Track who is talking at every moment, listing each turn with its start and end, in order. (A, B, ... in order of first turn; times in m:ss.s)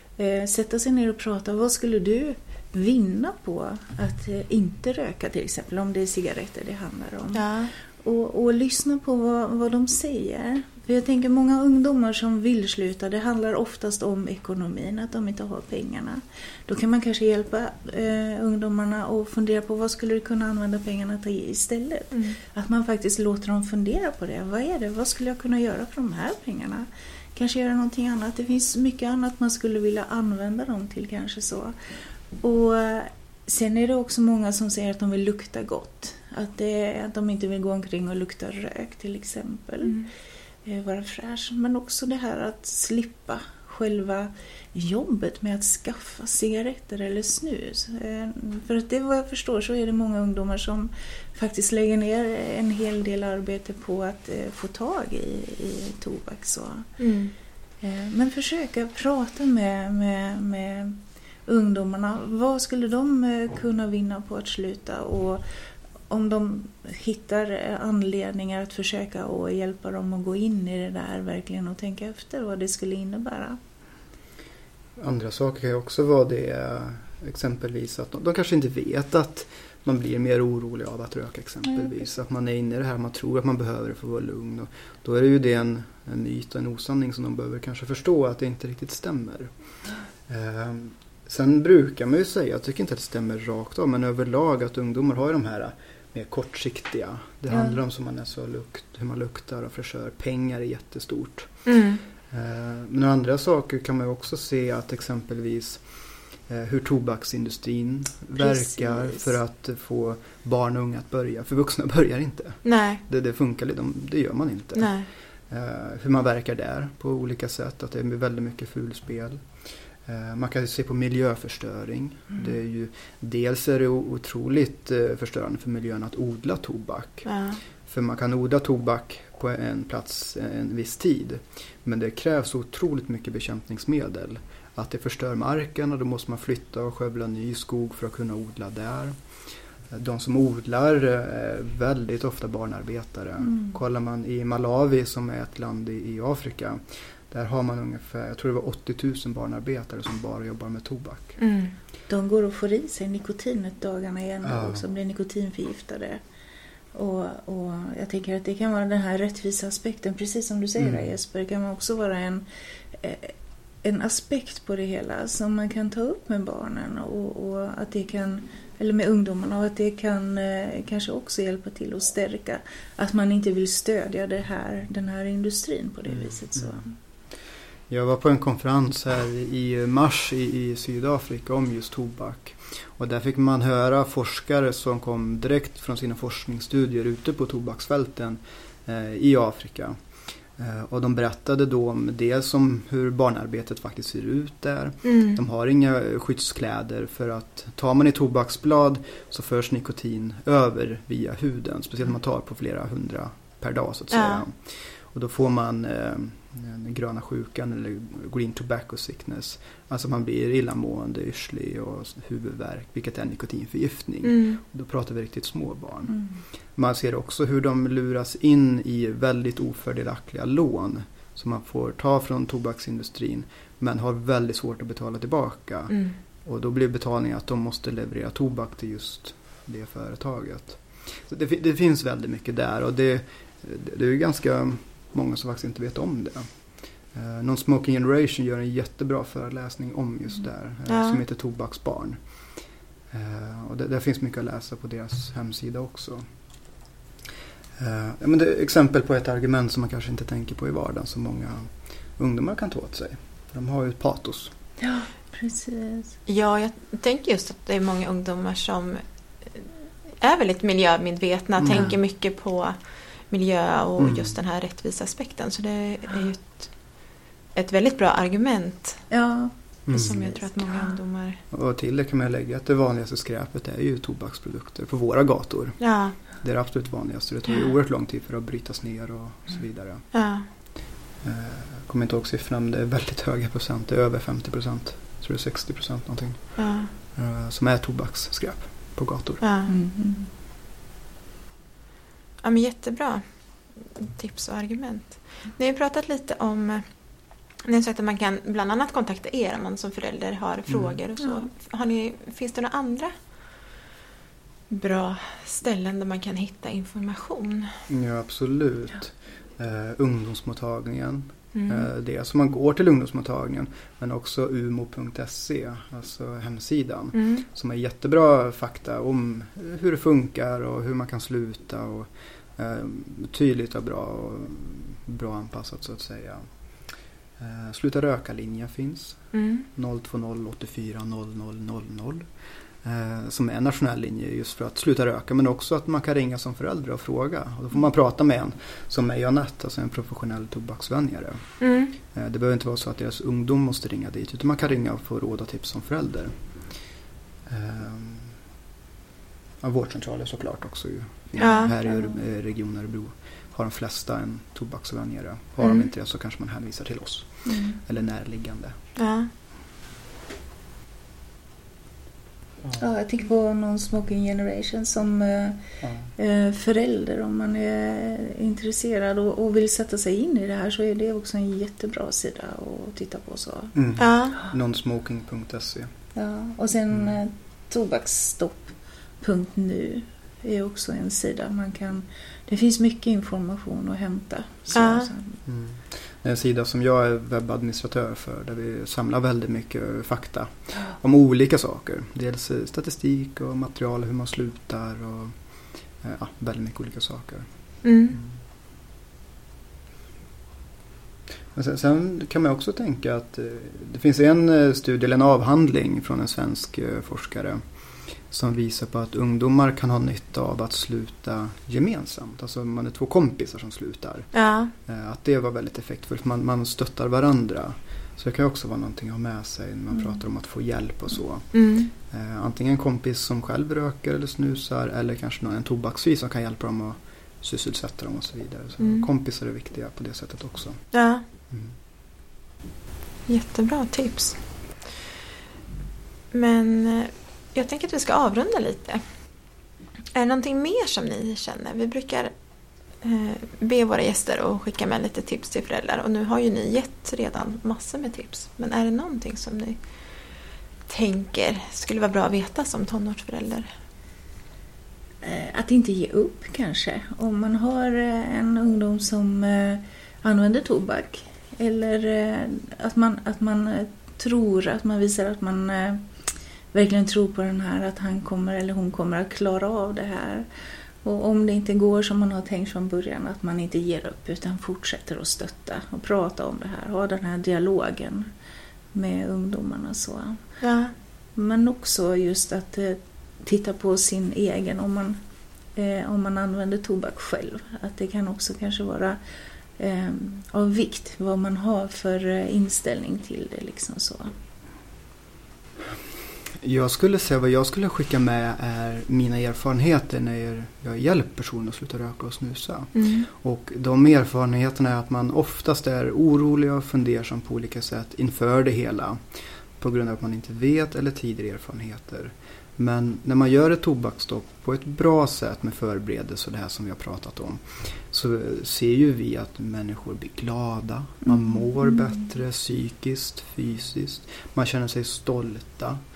0:00.2-0:31.8 A
0:07.3-0:07.7 B
0:22.1-0:22.4 B
0:32.4-0:40.0 A
0:40.6-0:56.9 A
0:57.0-0:57.3 B
0:57.8-1:05.4 A
1:06.1-1:13.6 A
1:15.0-1:29.5 C
1:30.3-1:41.6 C
1:41.7-1:42.0 B
1:42.3-1:45.8 C
1:46.5-2:07.3 C
1:48.4-1:49.3 A
1:52.6-1:53.0 B
1:54.8-1:55.1 B
2:07.2-2:07.6 B
2:07.9-2:19.2 C
2:19.9-2:31.4 C
2:23.4-2:23.8 A
2:31.4-2:31.7 B
2:32.1-2:36.2 A
2:34.4-2:34.8 C
2:36.9-2:57.0 A
2:40.8-2:41.1 C
2:56.1-2:56.8 C
2:57.9-3:10.0 C
3:10.6-3:36.2 C
3:15.0-3:15.4 B
3:24.1-3:24.4 B
3:34.2-3:34.6 B
3:36.1-3:36.4 A
3:36.8-3:56.5 C
3:45.9-3:46.2 B
3:57.1-4:02.2 C
4:00.9-4:01.2 B
4:03.1-4:06.3 C
4:07.8-4:14.5 C
4:14.8-4:16.2 A
4:16.3-4:19.0 B
4:20.2-4:26.7 B
4:21.6-4:21.9 C
4:24.0-4:24.4 C
4:27.6-4:29.1 B
4:29.1-4:31.0 A
4:29.9-4:30.2 C
4:29.9-4:31.4 B
4:31.5-4:40.0 C
4:35.8-4:36.2 B
4:40.1-4:40.5 B
4:41.2-4:49.4 C
4:46.6-4:46.9 B
4:49.4-4:49.7 B
4:49.7-4:50.3 A
4:52.4-4:53.2 B
4:53.8-4:56.9 B
4:57.6-5:03.1 B
5:00.7-5:01.0 C
5:04.7-5:07.7 B
5:07.9-5:26.5 C
5:11.5-5:11.9 B
5:17.1-5:17.4 B
5:27.4-5:32.3 C
5:29.3-5:29.7 B
5:32.8-5:41.6 C
5:41.6-5:42.0 B
5:42.1-5:46.3 C
5:47.5-5:48.4 C
5:49.6-5:58.8 C
5:51.4-5:51.7 B
5:55.6-5:55.9 B
5:57.4-5:57.8 A
5:59.0-5:59.3 B
6:02.8-6:05.6 A
6:05.8-6:06.1 C
6:06.2-6:13.7 A
6:13.7-6:15.9 C
6:14.0-6:14.4 B
6:16.2-6:25.4 A
6:24.8-6:25.1 B
6:25.5-6:35.4 C
6:36.0-6:37.5 C
6:37.8-6:38.2 B
6:41.5-6:47.6 C
6:48.1-6:54.3 C
6:54.3-6:54.7 B
6:54.9-7:10.8 C
7:01.5-7:01.9 B
7:08.8-7:09.1 B
7:10.9-7:11.2 B
7:11.5-7:11.7 C
7:13.3-7:14.4 B
7:16.3-7:19.0 B
7:20.2-7:22.3 B
7:23.0-7:29.8 B
7:30.9-7:33.7 B
7:35.2-7:46.0 A
7:46.7-7:50.5 A
7:51.0-7:58.3 A
7:59.0-8:00.4 A
8:00.6-8:00.9 B
8:01.4-8:05.2 A
8:05.8-8:09.2 A
8:09.8-8:14.3 A
8:16.6-8:46.0 C
8:23.0-8:23.3 B
8:41.2-8:42.2 A